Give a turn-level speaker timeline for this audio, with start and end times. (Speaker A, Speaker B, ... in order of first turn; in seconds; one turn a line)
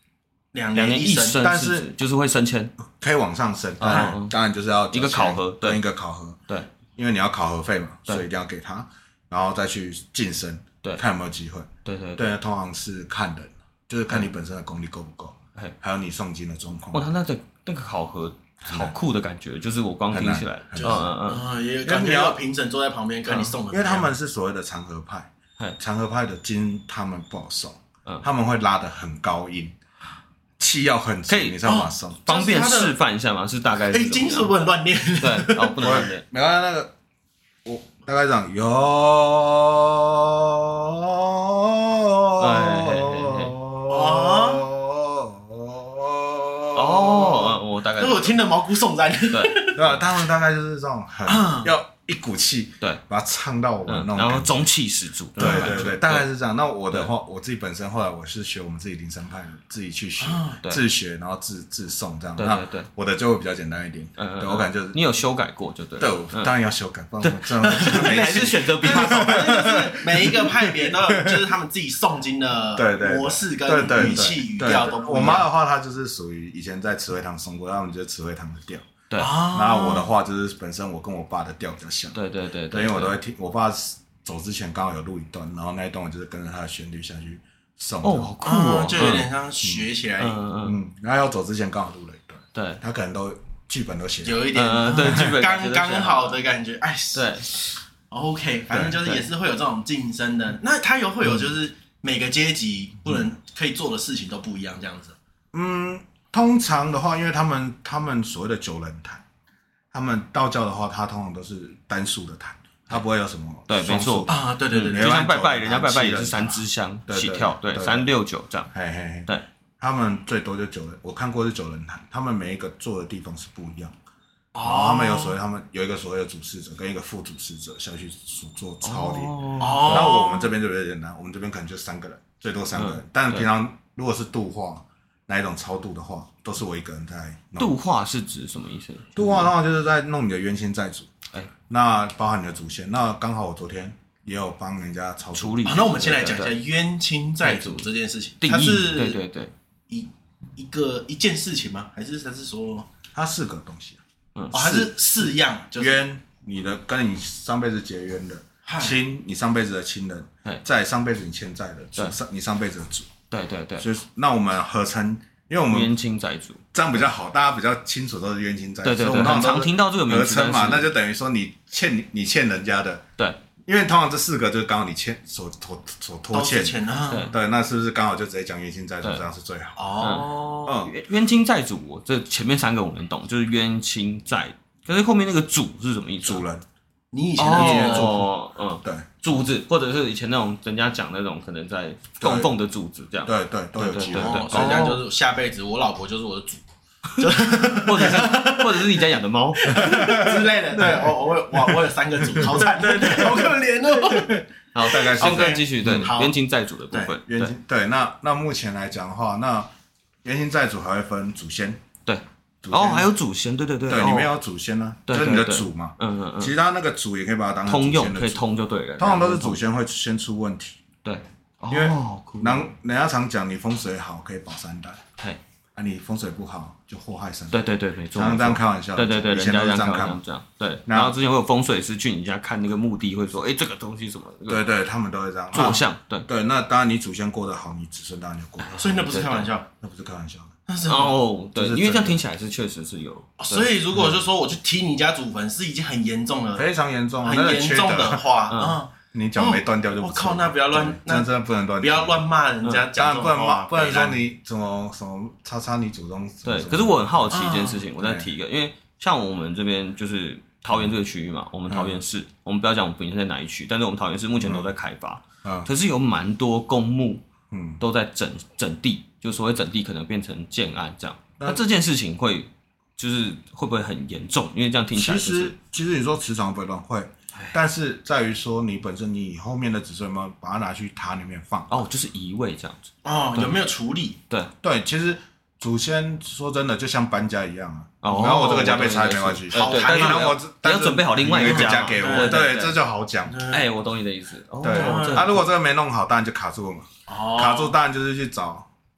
Speaker A: 0.5-1.5
Speaker B: 0.7-2.7
Speaker C: 1.4-1.9
Speaker C: 2.9-6.4
Speaker B: 3.8-4.3
Speaker B: 4.9-5.8
Speaker C: 7.0-17.1
Speaker B: 11.8-12.3
Speaker B: 16.9-21.5
Speaker C: 18.6-18.9
Speaker C: 20.1-21.0
Speaker A: 20.8-24.1
Speaker C: 21.8-22.4
Speaker C: 23.6-29.8
Speaker C: 30.6-32.2
Speaker B: 31.3-31.6
Speaker A: 31.6-33.0
Speaker B: 32.3-34.6
Speaker A: 33.9-36.1
Speaker B: 35.2-36.2
Speaker C: 35.8-36.9
Speaker C: 37.6-47.5
Speaker B: 42.4-43.5
Speaker A: 43.9-44.6
Speaker B: 46.7-48.4
Speaker A: 48.0-50.2
Speaker B: 49.3-49.7
Speaker C: 49.7-54.7
Speaker A: 51.3-51.7
Speaker B: 53.9-56.3
Speaker C: 55.4-65.0
Speaker A: 55.4-55.9
Speaker A: 60.2-60.6
Speaker B: 62.4-62.9
Speaker B: 64.2-66.5
Speaker C: 66.0-71.5
Speaker B: 67.2-69.7
Speaker A: 67.8-75.5
Speaker C: 72.8-82.2
Speaker B: 79.1-79.4
Speaker A: 79.2-80.1
Speaker B: 82.1-83.2
Speaker C: 82.7-88.4
Speaker B: 88.0-89.3
Speaker A: 88.4-90.4
Speaker C: 89.0-89.9
Speaker B: 90.2-90.8
Speaker C: 90.6-94.5
Speaker B: 92.5-92.8
Speaker A: 94.2-97.3
Speaker B: 94.5-96.4
Speaker C: 95.0-95.2
Speaker B: 97.1-97.8
Speaker A: 98.1-105.2
Speaker C: 98.7-99.0
Speaker C: 105.5-109.2
Speaker C: 109.9-118.1
Speaker B: 113.7-118.7
Speaker A: 114.3-115.1
Speaker C: 118.7-124.0
Speaker A: 124.5-125.4
Speaker C: 124.6-137.8
Speaker B: 128.8-130.1
Speaker A: 129.6-130.5
Speaker B: 132.8-133.5
Speaker B: 137.6-139.5
Speaker C: 139.2-141.1
Speaker C: 141.7-145.7
Speaker B: 145.3-146.6
Speaker A: 145.6-149.2
Speaker B: 147.4-147.9
Speaker B: 148.4-149.5
Speaker A: 149.9-152.9
Speaker C: 153.1-154.0
Speaker C: 154.5-155.0
Speaker A: 154.5-156.0
Speaker C: 155.8-163.1
Speaker A: 158.7-159.0
Speaker B: 163.3-163.9
Speaker C: 163.8-165.9
Speaker B: 165.7-166.6
Speaker C: 166.7-173.0
Speaker B: 168.8-170.9
Speaker C: 173.7-179.9
Speaker A: 176.3-177.3
Speaker B: 177.1-177.3
Speaker A: 179.8-180.7
Speaker B: 180.0-186.4
Speaker C: 180.7-180.9
Speaker C: 186.2-186.7
Speaker A: 187.1-188.2
Speaker B: 187.4-195.0
Speaker C: 187.5-188.3
Speaker C: 188.8-189.1
Speaker C: 192.2-192.5
Speaker C: 193.2-194.8
Speaker A: 194.1-196.6
Speaker A: 197.2-206.4
Speaker B: 197.5-200.0
Speaker C: 199.8-206.1
Speaker B: 204.7-207.5
Speaker A: 206.9-207.2
Speaker C: 207.3-209.7
Speaker C: 210.2-211.8
Speaker B: 212.1-214.3
Speaker C: 212.6-213.1
Speaker C: 213.9-218.4
Speaker B: 215.1-216.5
Speaker B: 217.7-219.6
Speaker C: 219.0-220.8
Speaker B: 221.0-222.7
Speaker C: 221.7-225.0
Speaker C: 225.8-227.6
Speaker B: 227.5-234.7
Speaker C: 228.1-230.2
Speaker C: 230.9-231.2
Speaker C: 234.5-239.1
Speaker B: 235.5-236.3
Speaker B: 238.6-239.5
Speaker A: 238.8-239.7
Speaker C: 239.8-240.6
Speaker A: 240.7-241.2
Speaker B: 240.9-243.7
Speaker C: 241.6-242.2
Speaker A: 243.4-246.7
Speaker C: 246.6-248.3
Speaker A: 247.2-254.2
Speaker B: 248.5-248.8
Speaker C: 249.1-252.2
Speaker C: 252.9-257.4
Speaker B: 256.4-267.2
Speaker A: 257.3-257.9
Speaker C: 258.0-258.3
Speaker C: 261.7-262.0
Speaker C: 264.4-264.7
Speaker C: 265.4-265.7
Speaker C: 267.5-267.8
Speaker B: 267.8-275.5
Speaker C: 274.9-281.8
Speaker B: 281.7-283.6
Speaker A: 283.0-284.2
Speaker C: 284.6-293.4
Speaker B: 288.0-292.8
Speaker A: 289.5-290.3
Speaker A: 291.4-292.4
Speaker A: 293.3-293.7
Speaker B: 293.5-295.5
Speaker C: 294.6-298.7
Speaker A: 294.6-295.4
Speaker A: 297.1-297.8